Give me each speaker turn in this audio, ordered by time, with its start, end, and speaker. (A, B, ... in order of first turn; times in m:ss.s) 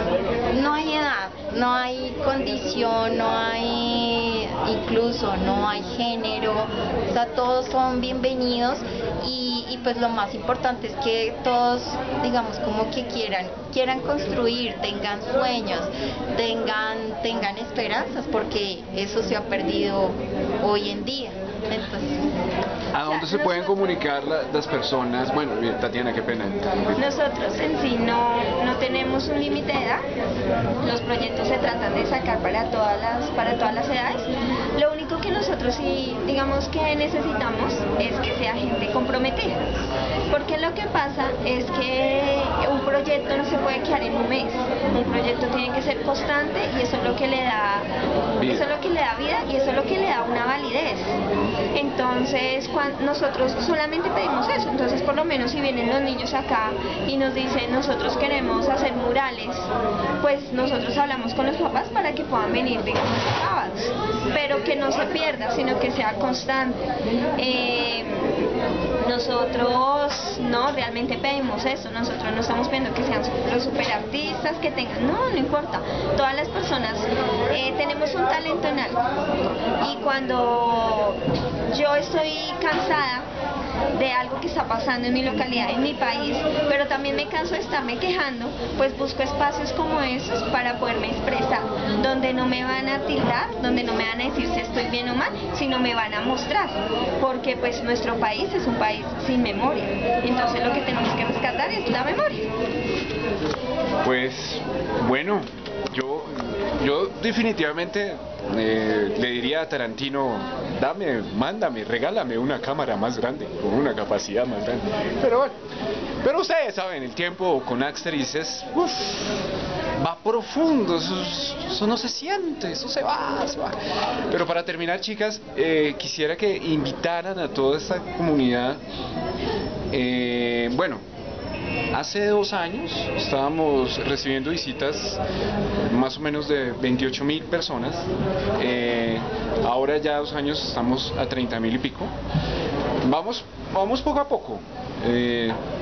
0:00.5-0:22.2 A
0:22.9-0:27.0 B
0:23.0-0:23.7 C
0:27.0-0:30.0 C
0:30.8-0:39.6 C
0:40.3-0:47.9 C
0:48.4-0:48.7 B
0:48.4-0:51.2 C
0:51.7-0:59.7 C
1:00.2-1:08.4 C
1:09.0-1:19.0 C
1:19.8-1:23.3 C
1:23.9-1:42.5 C
1:44.0-1:55.5 B
1:56.2-1:59.4 B
2:00.0-2:03.8 B
2:04.3-2:08.8 B
2:09.9-2:11.0 B
2:11.9-2:15.2 B
2:15.9-2:18.1 B
2:18.6-2:22.1 B
2:23.0-2:25.6 B